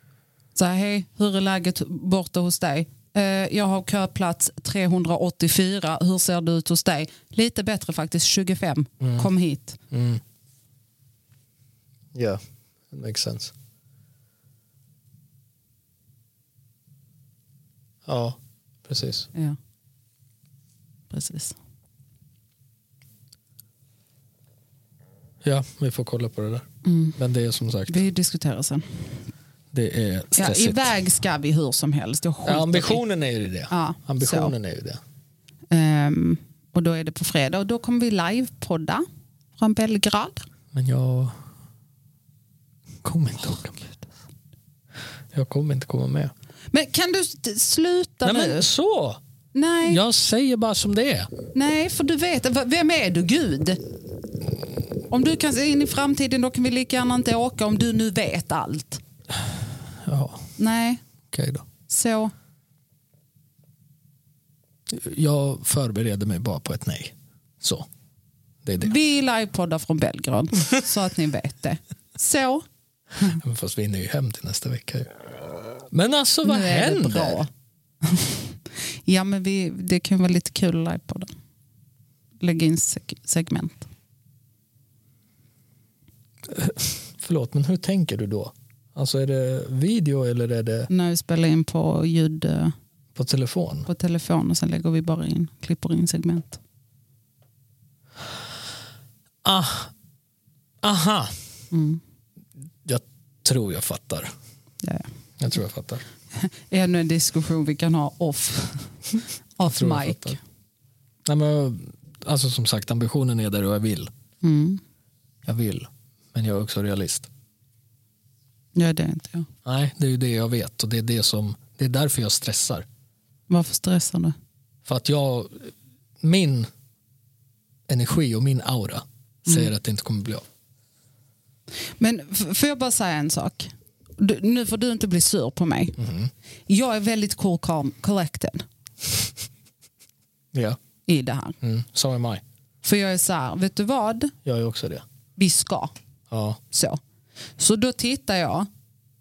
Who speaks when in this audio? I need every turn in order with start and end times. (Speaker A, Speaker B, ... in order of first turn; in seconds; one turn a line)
Speaker A: 0.6-9.8
Speaker B: 9.0-9.3
Speaker B: 9.9-10.2
Speaker B: 12.1-13.5
Speaker B: 18.1-19.3
Speaker A: 21.1-21.6
Speaker B: 25.4-26.7
Speaker A: 26.8-27.2
Speaker B: 27.2-28.1
Speaker A: 27.9-29.2
Speaker B: 29.7-30.9
Speaker A: 30.4-33.0
Speaker B: 32.5-35.0
Speaker A: 33.7-34.5
Speaker A: 35.7-39.0
Speaker A: 39.6-40.5
Speaker B: 40.7-41.4
Speaker B: 43.0-43.9
Speaker B: 45.3-46.3
Speaker A: 46.7-48.7
Speaker B: 48.2-49.2
Speaker A: 49.5-50.0
Speaker B: 49.8-51.3
Speaker A: 51.5-53.8
Speaker A: 55.1-59.0
Speaker B: 60.0-60.5
Speaker A: 60.6-61.0
Speaker B: 61.3-61.7
Speaker A: 61.9-62.3
Speaker B: 64.9-67.9
Speaker B: 68.6-68.9
Speaker A: 68.8-72.6
Speaker B: 73.3-75.1
Speaker B: 75.9-77.4
Speaker A: 76.4-77.5
Speaker A: 78.0-81.3
Speaker A: 82.4-83.9
Speaker B: 86.5-90.9
Speaker A: 90.9-92.7
Speaker B: 93.2-93.9
Speaker A: 93.9-96.6
Speaker B: 99.4-99.9
Speaker B: 100.8-101.3
Speaker A: 101.7-102.0
Speaker B: 102.8-104.3
Speaker A: 104.8-105.1
Speaker B: 105.4-106.0
Speaker A: 106.3-109.0
Speaker A: 109.6-110.4
Speaker B: 109.7-110.4
Speaker B: 111.2-114.1
Speaker A: 114.4-114.8
Speaker B: 115.5-117.3
Speaker A: 118.8-119.5
Speaker B: 119.7-122.9
Speaker A: 123.5-124.3
Speaker B: 124.8-126.7
Speaker B: 127.9-130.4
Speaker A: 132.0-136.0
Speaker B: 136.0-136.3
Speaker A: 136.7-138.7
Speaker B: 140.5-140.8
Speaker A: 141.1-141.6
Speaker B: 141.6-142.4
Speaker A: 142.8-144.3
Speaker B: 144.5-145.0
Speaker A: 145.4-145.9
Speaker B: 146.3-146.6
Speaker A: 146.7-147.0
Speaker A: 147.6-148.7